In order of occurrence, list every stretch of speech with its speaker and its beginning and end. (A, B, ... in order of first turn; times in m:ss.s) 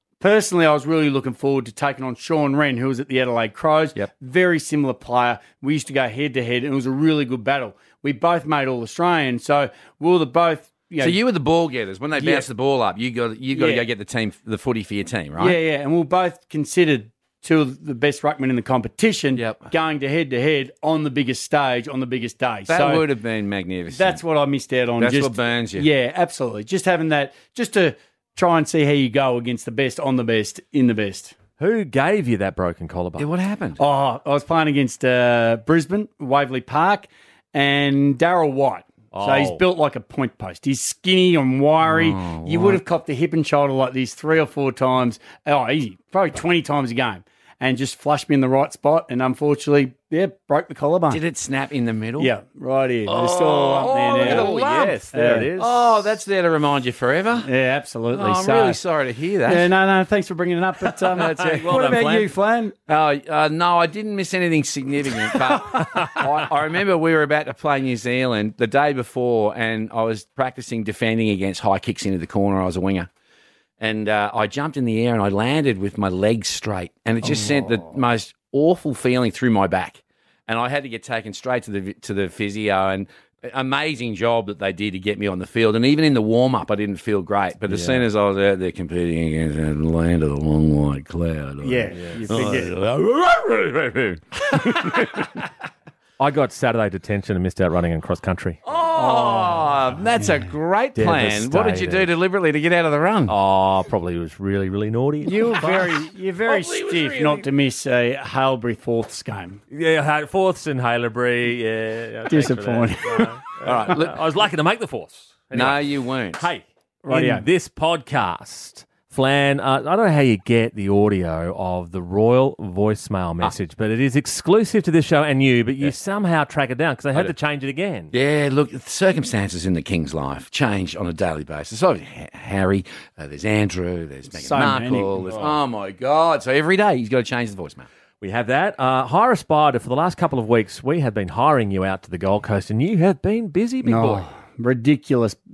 0:00.2-0:11.2 A
0:11.0-0:15.6 B
0:12.1-0:12.5 A
0:13.5-0:13.8 A
0:15.4-0:23.0 A
0:19.4-0:19.7 B
0:22.7-0:24.2 B
0:23.9-0:31.4 A
0:25.0-0:25.9 B
0:31.6-0:33.3 C
0:33.2-0:33.8 B
0:33.8-0:51.2 A
0:39.1-0:39.6 C
0:41.8-0:42.8 B
0:51.1-0:52.3 B
0:52.2-0:54.5 A
0:53.1-0:55.0 B
0:54.2-0:55.9 C
0:55.1-0:55.5 A
0:55.6-0:57.5 B
0:57.4-0:58.8 A
0:58.1-0:59.7 B
0:59.4-1:02.8 A
1:01.2-1:01.8 B
1:01.2-1:02.3 C
1:02.9-1:13.1 B
1:13.8-1:35.3 B
1:27.7-1:28.0 C
1:31.6-1:32.7 A
1:31.9-1:32.5 C
1:36.2-1:38.6 C
1:38.7-1:43.3 B
1:38.9-1:39.8 A
1:41.0-1:42.1 C
1:43.3-1:47.5 C
1:45.2-1:49.6 A
1:49.7-2:08.1 C
1:52.3-1:53.4 A
1:53.7-1:54.1 B
1:55.5-1:56.5 B
1:57.0-1:57.5 A
2:08.1-2:17.9 B
2:14.3-2:15.2 A
2:18.2-2:24.2 C
2:23.8-2:25.4 A